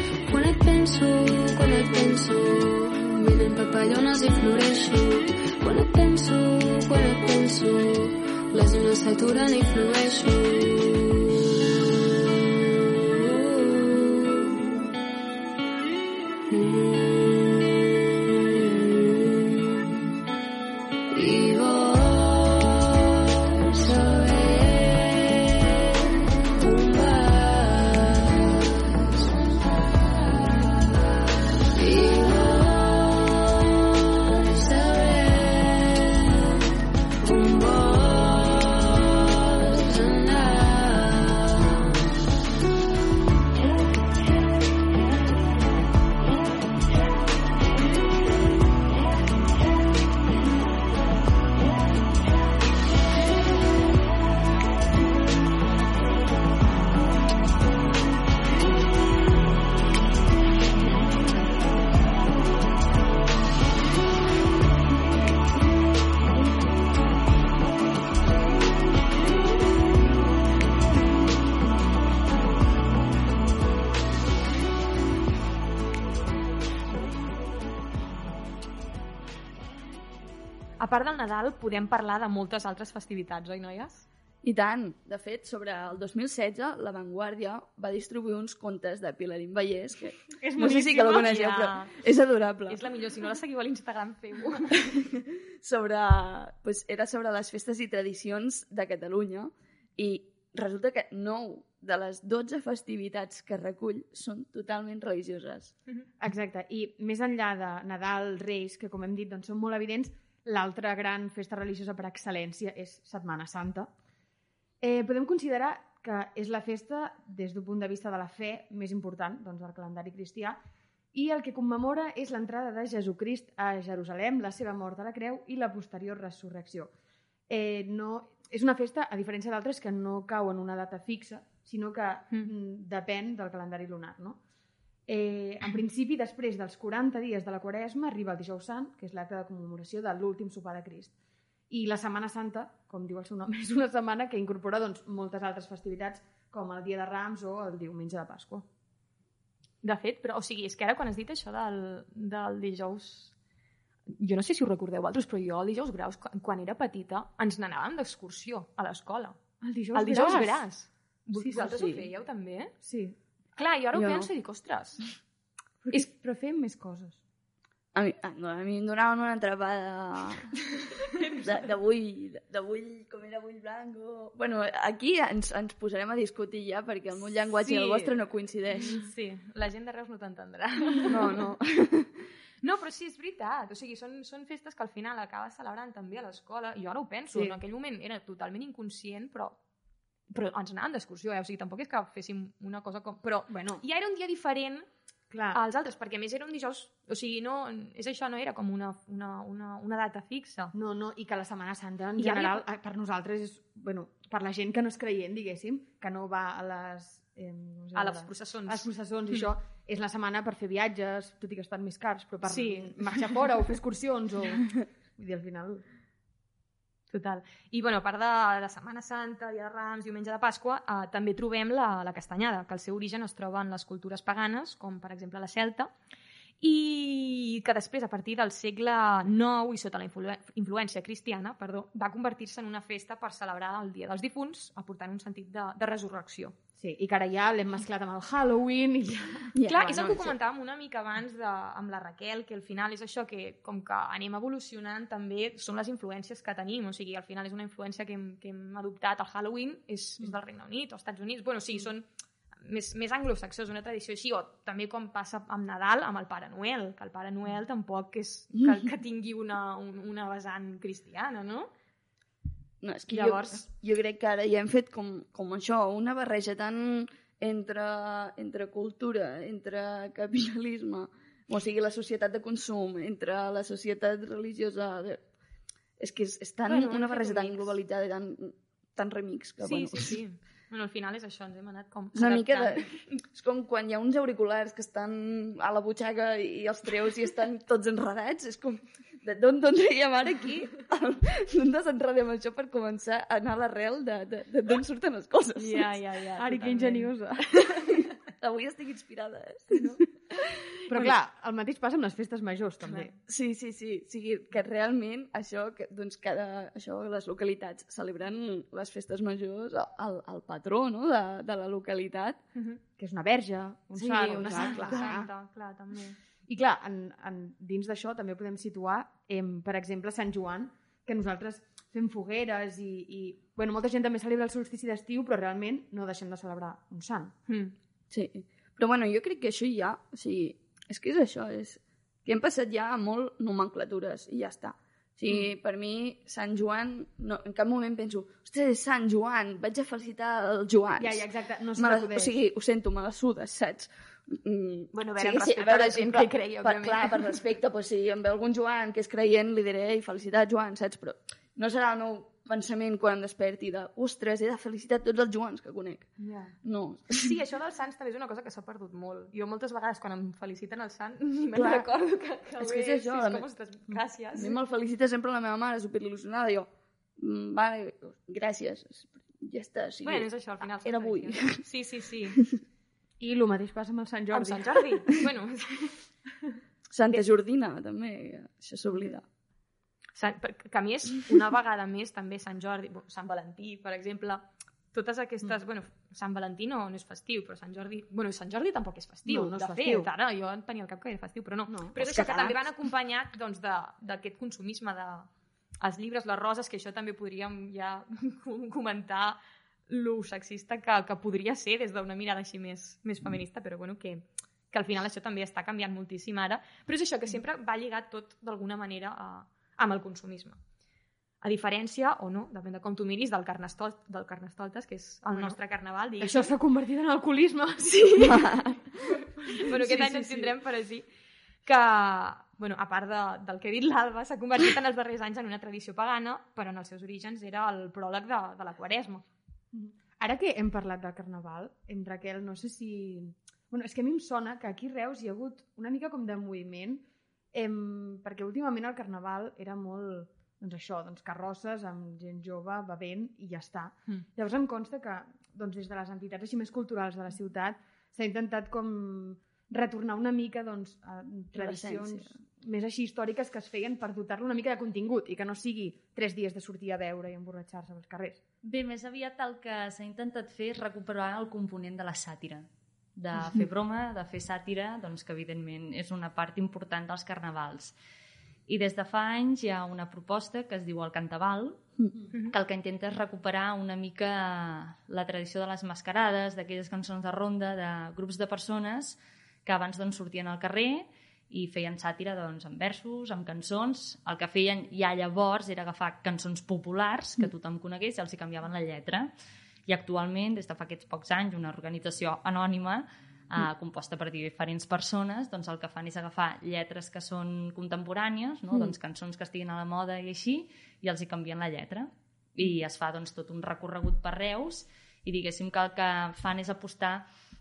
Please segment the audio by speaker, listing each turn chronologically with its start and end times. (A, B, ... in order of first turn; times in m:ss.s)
0:00.2-0:11.6 A
0:12.2-0:14.8 A
0:16.5-0:20.0 A
0:21.1-0:29.3 A
0:31.7-0:36.6 A
0:37.2-0:41.9 A
1:20.8-1:24.1 B
1:24.4-1:32.8 C
1:30.4-1:32.0 B
1:32.7-1:34.8 B
1:34.8-1:45.7 C
1:46.2-1:53.9 D
1:54.8-2:00.6 D
2:01.1-2:06.9 D
2:07.5-2:14.4 D
2:15.1-2:21.1 D
2:21.7-2:28.6 D
2:29.8-2:33.3 B
2:34.1-2:39.4 B
2:39.6-2:40.7 D
2:39.9-2:42.7 B
2:41.4-2:42.1 D
2:42.8-2:43.2 D
2:43.6-2:45.0 B
2:43.9-2:44.3 C
2:45.8-2:47.2 D
2:47.9-2:59.0 C
2:51.2-2:51.7 B
2:57.6-2:58.2 B
2:58.8-3:01.6 B
3:01.1-3:02.1 C
3:02.6-3:09.6 B
3:07.3-3:07.6 D
3:10.3-3:14.8 B
3:13.5-3:13.8 D
3:15.3-3:15.6 D
3:15.5-3:20.7 B
3:20.7-3:35.8 D
3:22.2-3:22.6 B
3:27.9-3:28.9 B
3:32.4-3:33.3 B
3:37.1-3:45.9 B
3:46.6-3:56.6 B
3:56.8-3:59.5 D
3:59.5-4:00.3 C
3:59.6-4:12.1 B
4:12.6-4:21.7 B
4:22.8-4:35.2 C
4:23.1-4:23.6 B
4:36.0-4:40.2 C
4:36.7-4:37.8 B
4:39.6-4:43.0 B
4:42.1-4:56.1 C
4:55.6-4:57.6 B
4:56.4-4:58.0 D
4:58.3-5:01.1 C
4:59.7-5:00.0 B
5:00.9-5:03.1 D
5:02.9-5:03.1 B
5:03.3-5:12.4 C
5:13.0-5:15.3 D
5:14.0-5:16.2 B
5:14.4-5:15.2 C
5:16.5-5:27.3 D
5:27.5-5:27.7 B
5:28.1-5:41.2 C
5:41.0-5:42.3 D
5:41.8-5:56.1 C
5:44.9-5:47.4 B
5:56.2-5:56.5 D
5:56.6-5:57.3 C
5:57.1-6:04.6 B
6:01.5-6:01.9 C
6:02.6-6:03.4 C
6:04.3-6:10.3 C
6:10.0-6:12.4 B
6:10.8-6:11.6 C
6:13.2-6:14.8 D
6:14.3-6:16.0 B
6:16.9-6:19.2 C
6:20.1-6:35.3 B
6:29.3-6:30.1 D
6:31.7-6:31.9 D
6:32.0-6:32.6 C
6:35.8-6:50.6 B
6:51.4-6:56.5 B
6:55.3-6:55.6 D
6:56.2-7:00.6 D
6:58.3-6:58.7 C
6:59.6-7:01.0 B
7:01.6-7:09.2 B
7:09.7-7:38.4 D
7:31.5-7:32.3 C
7:38.6-7:47.9 E
7:48.7-7:51.8 E
7:52.5-8:09.3 E
8:09.9-8:27.2 E